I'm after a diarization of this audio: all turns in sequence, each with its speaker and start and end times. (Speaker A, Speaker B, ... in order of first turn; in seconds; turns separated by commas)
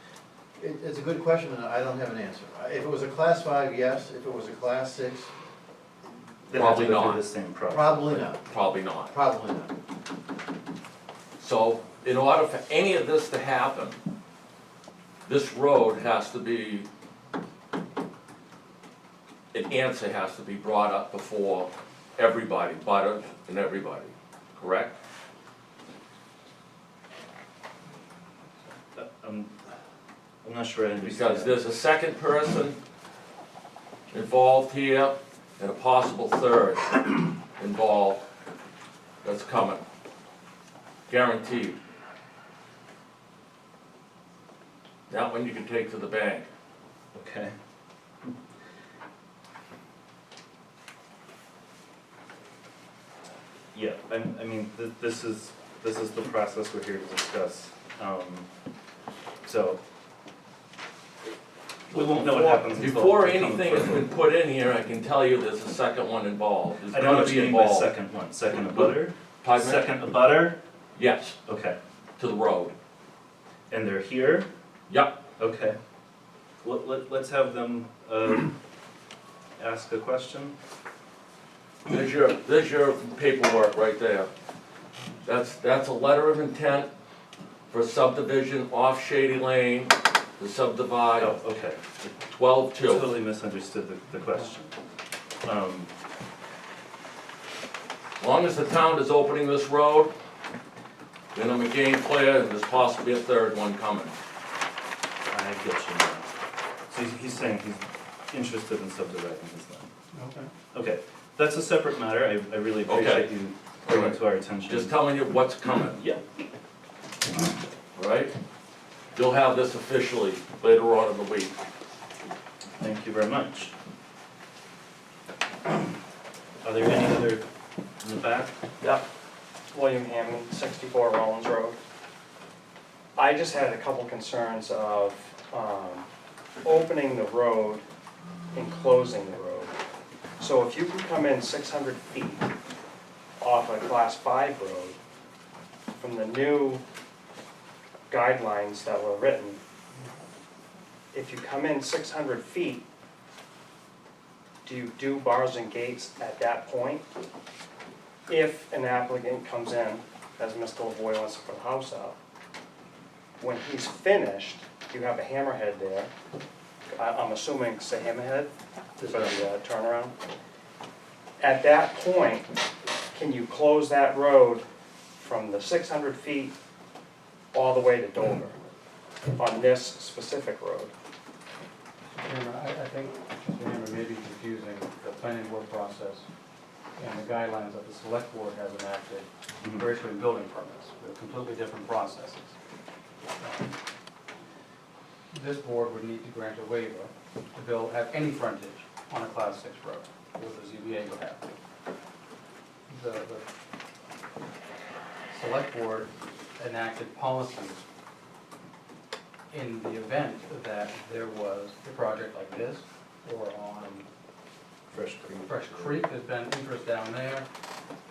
Speaker A: 0.6-5.3, Speaker B: 6.5-8.2, Speaker C: 6.5-7.2, Speaker A: 7.7-8.4, Speaker C: 8.5-9.1, Speaker A: 9.1-9.7, Speaker C: 11.4-14.0, Speaker C: 15.2-16.9, Speaker C: 19.5-24.9, Speaker B: 28.9-29.5, Speaker B: 30.4-31.6, Speaker C: 31.0-32.8, Speaker C: 34.1-38.2, Speaker C: 39.2-39.8, Speaker C: 41.1-41.8, Speaker C: 45.1-46.5, Speaker B: 47.1-47.5, Speaker B: 53.7-58.5, Speaker B: 59.4-59.8, Speaker B: 61.9-64.1, Speaker C: 62.0-67.9, Speaker B: 66.9-70.6, Speaker C: 68.5-69.9, Speaker C: 71.0-71.4, Speaker B: 71.5-71.8, Speaker C: 72.2-72.7, Speaker B: 73.7-74.5, Speaker C: 74.9-75.2, Speaker B: 75.4-75.8, Speaker B: 76.6-78.5, Speaker B: 79.6-80.5, Speaker C: 81.9-84.3, Speaker C: 85.2-86.9, Speaker C: 87.7-91.4, Speaker B: 91.2-91.8, Speaker C: 92.2-93.1, Speaker B: 92.8-94.7, Speaker B: 95.4-95.9, Speaker C: 98.2-100.1, Speaker C: 101.3-104.1, Speaker B: 105.3-106.3, Speaker B: 106.9-109.8, Speaker D: 110.1-110.5, Speaker B: 110.7-114.9, Speaker C: 112.9-113.3, Speaker C: 113.9-116.0, Speaker B: 115.9-116.2, Speaker C: 118.0-118.3, Speaker C: 119.2-121.6, Speaker B: 122.8-123.7, Speaker B: 126.6-127.4, Speaker B: 128.0-128.5, Speaker E: 129.7-131.8, Speaker E: 133.2-136.1, Speaker E: 136.7-137.8, Speaker E: 138.5-139.7, Speaker E: 140.4-142.5, Speaker E: 143.4-145.0, Speaker E: 146.0-146.8, Speaker E: 148.1-149.6, Speaker E: 151.1-152.8, Speaker E: 154.7-157.0, Speaker E: 158.3-162.2, Speaker E: 163.4-166.1, Speaker E: 166.9-170.1, Speaker E: 171.4-172.5, Speaker E: 173.1-174.6, Speaker E: 175.2-176.5, Speaker E: 177.5-178.6, Speaker E: 179.4-180.9, Speaker D: 182.1-186.3, Speaker D: 187.0-192.6, Speaker D: 193.4-193.7, Speaker D: 195.3-201.4, Speaker D: 202.9-203.4, Speaker D: 205.3-207.8, Speaker D: 209.5-214.1, Speaker B: 214.9-216.0, Speaker D: 215.5-217.4